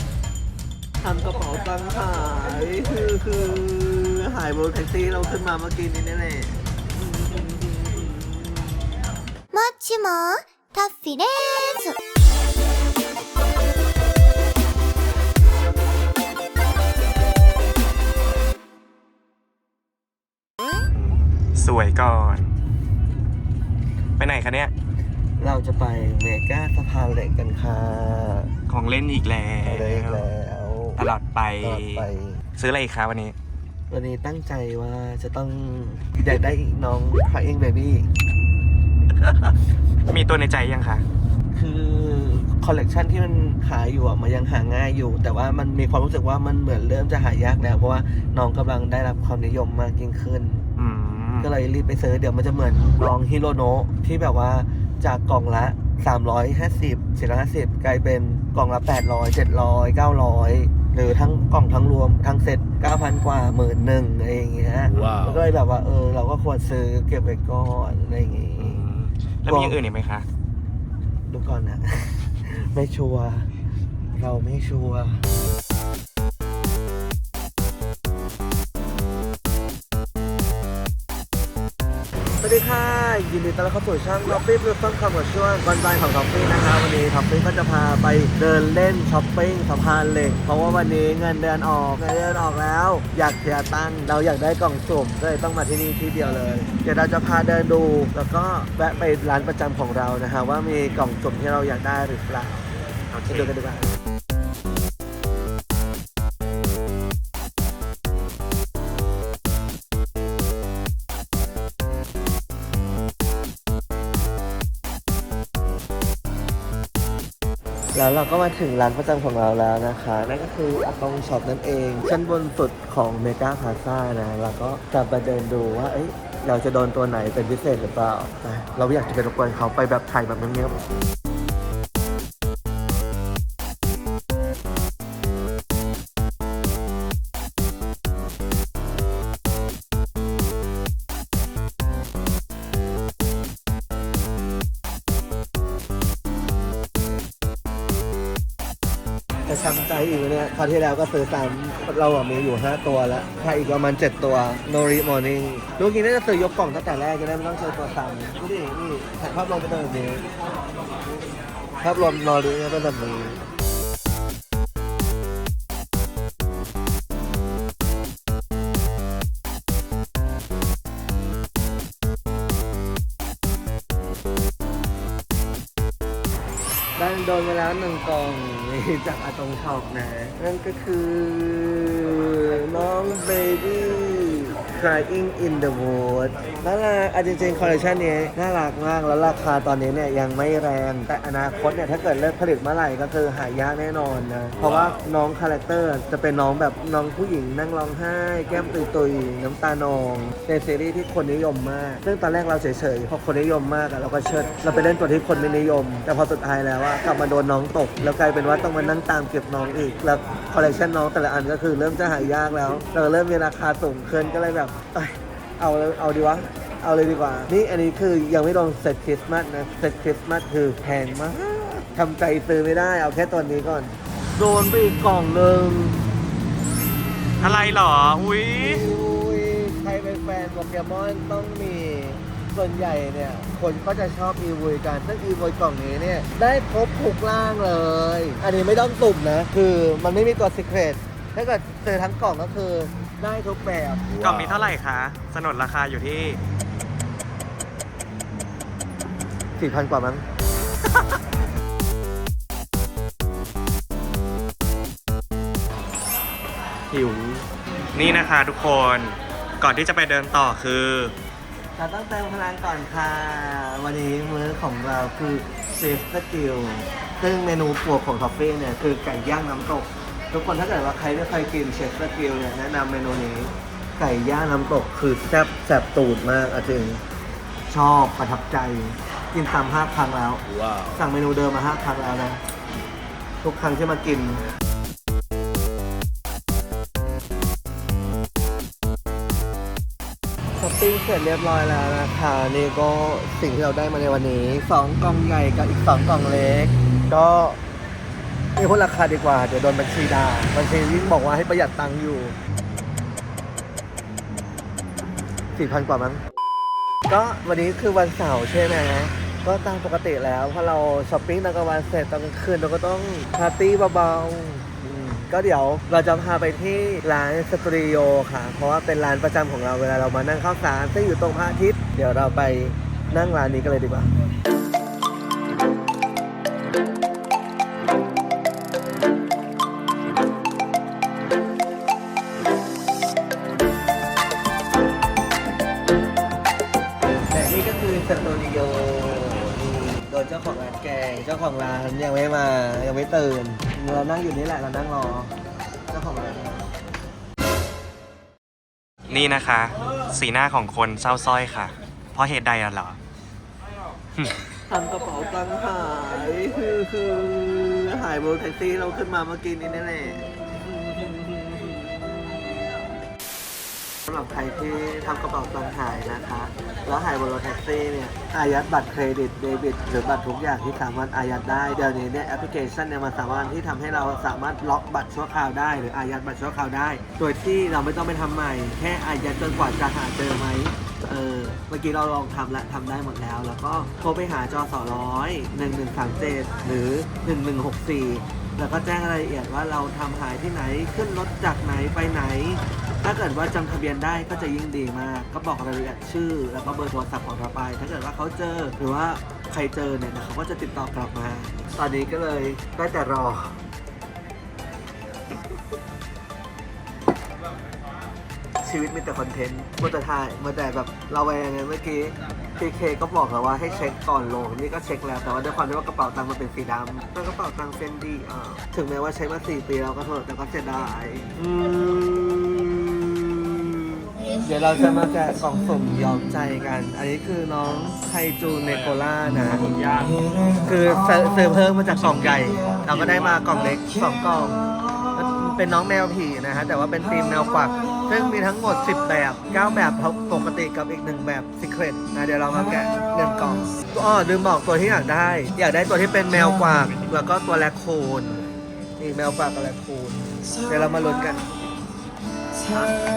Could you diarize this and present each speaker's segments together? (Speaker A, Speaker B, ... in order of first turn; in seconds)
Speaker A: 1.0-8.3, 25.4-28.5, 29.6-31.0, 31.6-32.4, 33.9-38.1, 41.5-50.6, 51.4-68.8, 69.5-69.8, 71.3-73.5, 74.1-75.2, 82.4-102.7, 103.3-103.9, 117.9-130.8, 149.5-160.3, 161.8-163.5, 177.0-226.1, 227.4-227.8, 228.6-244.1, 249.6-250.2, 261.8-277.0, 277.7-282.4, 283.4-284.4, 290.6-297.6, 298.6-302.3, 305.5-306.2, 307.1-324.1, 337.3-345.3, 345.9-346.7, 354.7-362.7, 364.1-403.6, 408.6-429.7, 430.6-448.4, 449.0-451.5
Speaker B: 9.5-12.0
Speaker C: 20.9-22.5, 24.2-24.7, 28.7-30.3, 31.0-33.3, 40.1-41.0, 50.8-51.5, 68.6-70.2, 103.1-103.5, 227.4-228.8, 244.2-246.4, 256.9-261.1, 349.1-353.0, 428.7-429.0, 429.7-430.2, 432.0-433.5